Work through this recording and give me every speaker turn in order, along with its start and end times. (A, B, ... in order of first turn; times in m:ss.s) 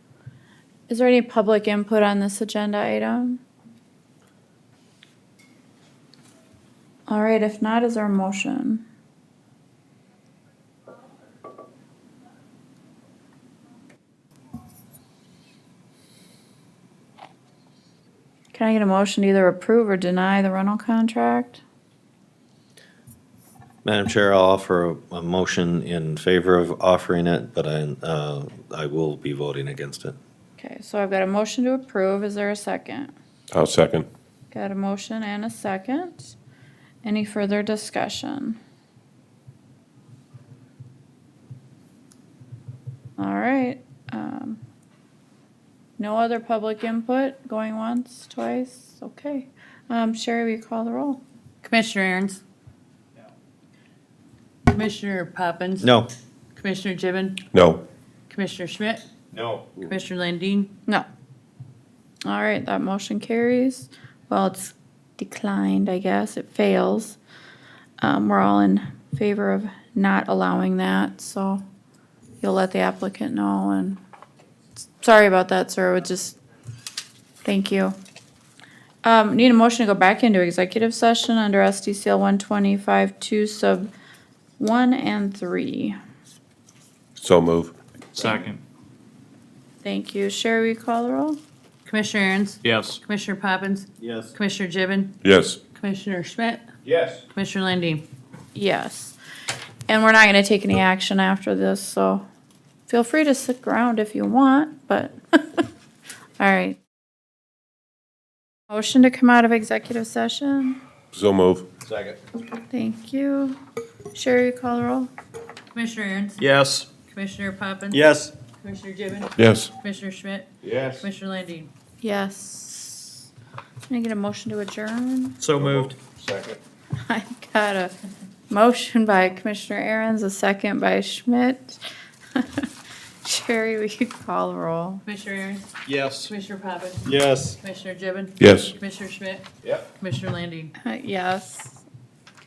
0:00.9-0:03.4 A
0:07.1-0:08.8 A
0:18.5-0:21.6 A
0:23.8-0:30.2 B
0:30.6-0:33.1 A
0:33.5-0:34.1 C
0:34.5-0:36.3 A
0:37.0-0:38.6 A
0:43.2-0:44.6 A
0:46.0-0:51.2 A
0:51.6-0:52.4 D
0:54.7-0:55.9 D
0:55.8-0:56.1 B
0:56.6-0:57.4 D
0:57.5-0:57.8 C
0:58.3-0:59.0 D
0:59.3-0:59.7 E
0:59.8-1:00.7 D
1:02.2-1:07.2 A
1:08.0-1:11.6 A
1:12.4-1:14.0 A
1:15.0-1:16.4 A
1:17.4-1:18.0 A
1:19.0-1:23.9 A
1:24.6-1:26.0 A
1:27.2-1:27.8 C
1:29.8-1:31.4 A
1:31.8-1:35.2 D
1:34.0-1:34.3 B
1:35.2-1:35.6 C
1:35.7-1:36.6 D
1:36.8-1:37.2 E
1:37.3-1:38.0 D
1:38.5-1:39.2 A
1:39.9-1:42.2 A
1:42.9-1:45.6 A
1:46.4-1:46.8 A
1:48.7-1:50.8 A
1:51.1-1:51.7 C
1:51.8-1:52.2 E
1:52.7-1:53.6 A
1:54.1-1:55.1 A
1:55.7-1:56.4 D
1:56.4-1:56.8 B
1:57.1-1:58.0 D
1:57.9-1:58.3 B
1:58.6-2:01.7 D
1:59.4-1:59.7 C
2:00.6-2:01.0 E
2:02.0-2:03.3 A
2:03.9-2:05.4 A
2:05.4-2:05.9 B
2:05.6-2:06.6 E
2:07.0-2:07.9 A
2:08.5-2:11.8 A
2:12.3-2:12.7 A
2:13.2-2:15.0 A
2:15.0-2:15.6 D
2:15.9-2:16.3 B
2:16.2-2:17.1 D
2:17.0-2:17.6 B
2:17.6-2:19.4 D
2:18.4-2:18.7 C
2:20.0-2:20.7 D
2:20.8-2:21.8 A